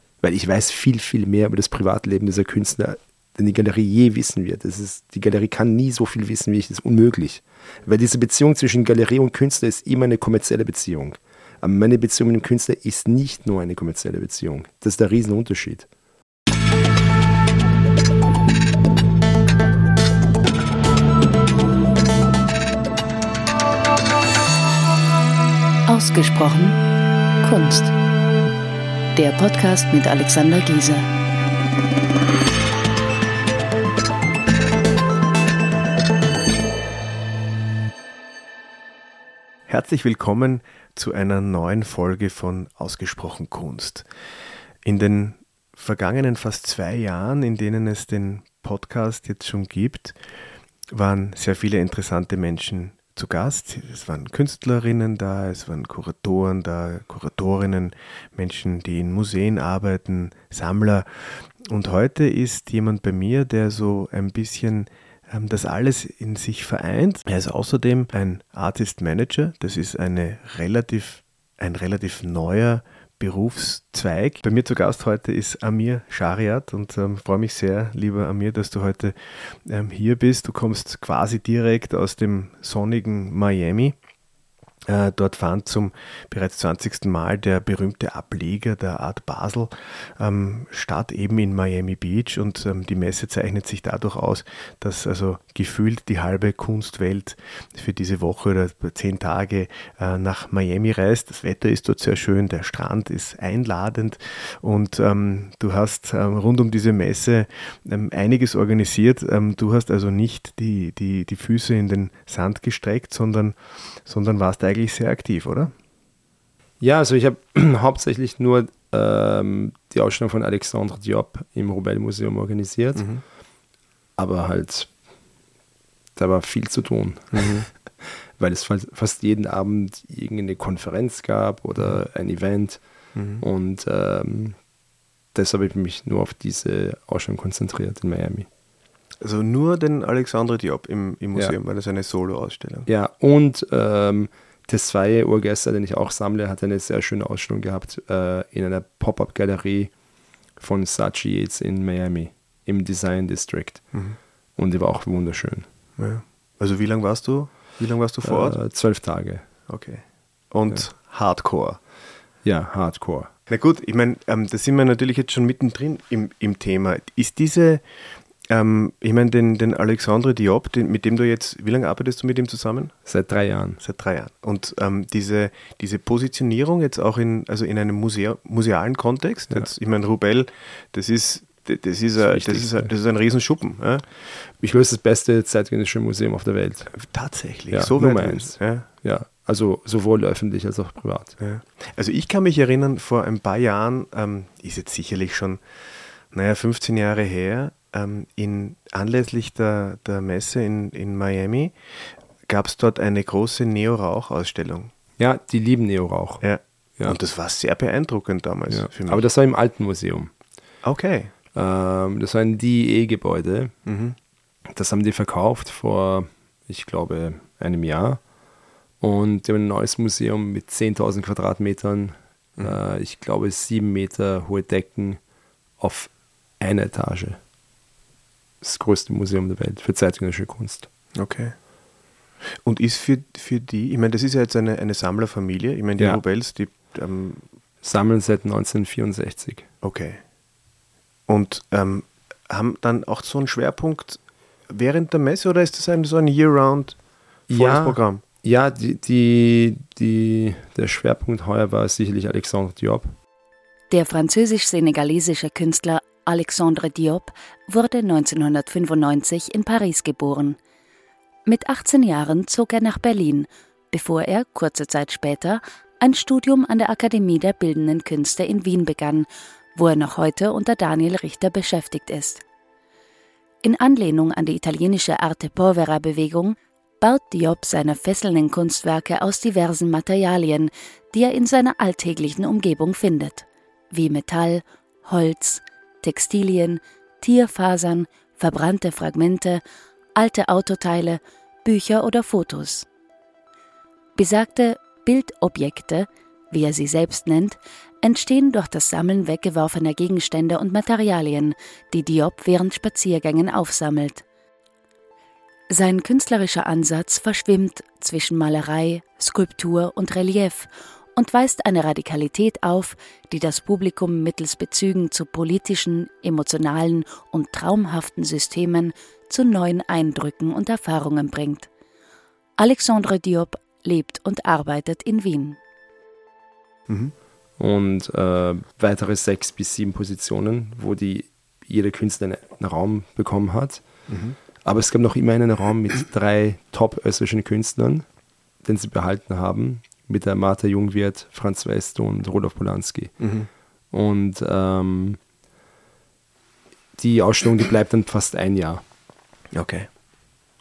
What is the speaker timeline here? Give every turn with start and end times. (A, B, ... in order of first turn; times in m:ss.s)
0:00.2-0:15.9 A
0:25.9-0:26.8 B
0:27.4-0:27.9 B
0:29.1-0:31.1 B
0:39.7-0:44.1 C
0:44.8-0:50.2 C
0:50.9-1:24.0 C
1:24.9-1:55.7 C
1:56.8-2:03.1 A
2:03.0-2:03.2 C
2:04.2-2:04.9 A
2:06.2-2:12.8 A
2:07.3-2:07.6 C
2:13.1-2:13.4 C
2:13.4-2:14.6 A
2:15.3-2:18.5 A
2:19.2-2:22.9 C
2:22.9-2:29.9 A
2:30.6-2:33.8 A
2:34.6-2:35.6 A
2:36.0-2:38.6 C
2:38.2-2:39.4 A
2:39.7-2:41.8 C
2:42.4-2:43.3 A
2:43.5-2:47.9 C
2:48.5-2:52.9 C
2:53.0-2:53.8 A
2:53.8-3:04.0 C
3:02.2-3:02.9 A
3:04.6-3:06.9 A
3:06.9-3:08.8 C
3:07.7-3:11.4 A
3:11.4-3:15.6 C
3:16.3-3:24.9 C
3:25.2-3:26.4 A
3:26.4-3:29.2 C
3:28.7-3:30.3 A
3:30.8-3:31.3 C
3:31.5-3:33.7 A
3:33.8-3:34.2 C
3:34.7-3:38.2 A
3:39.0-3:45.2 A
3:45.8-3:47.4 A
3:48.6-3:50.9 A
3:51.2-3:51.5 C
3:52.4-3:57.4 C
3:57.8-3:59.7 A
3:59.8-4:00.2 C
4:01.3-4:07.0 C
4:07.5-4:13.1 A
4:07.5-4:08.2 C
4:13.9-4:20.6 B
4:21.4-4:32.4 B
4:33.6-4:49.6 B
4:50.2-4:52.8 B
4:54.2-5:04.2 B
5:05.7-5:21.7 B
5:22.6-5:25.6 B
5:26.9-5:27.1 C
5:27.6-5:33.8 A
5:34.1-5:34.4 C
5:34.6-5:38.0 A
5:38.6-5:43.1 A
5:43.2-5:43.5 C
5:43.9-5:45.2 A
5:47.0-5:48.8 A
5:49.5-5:49.9 C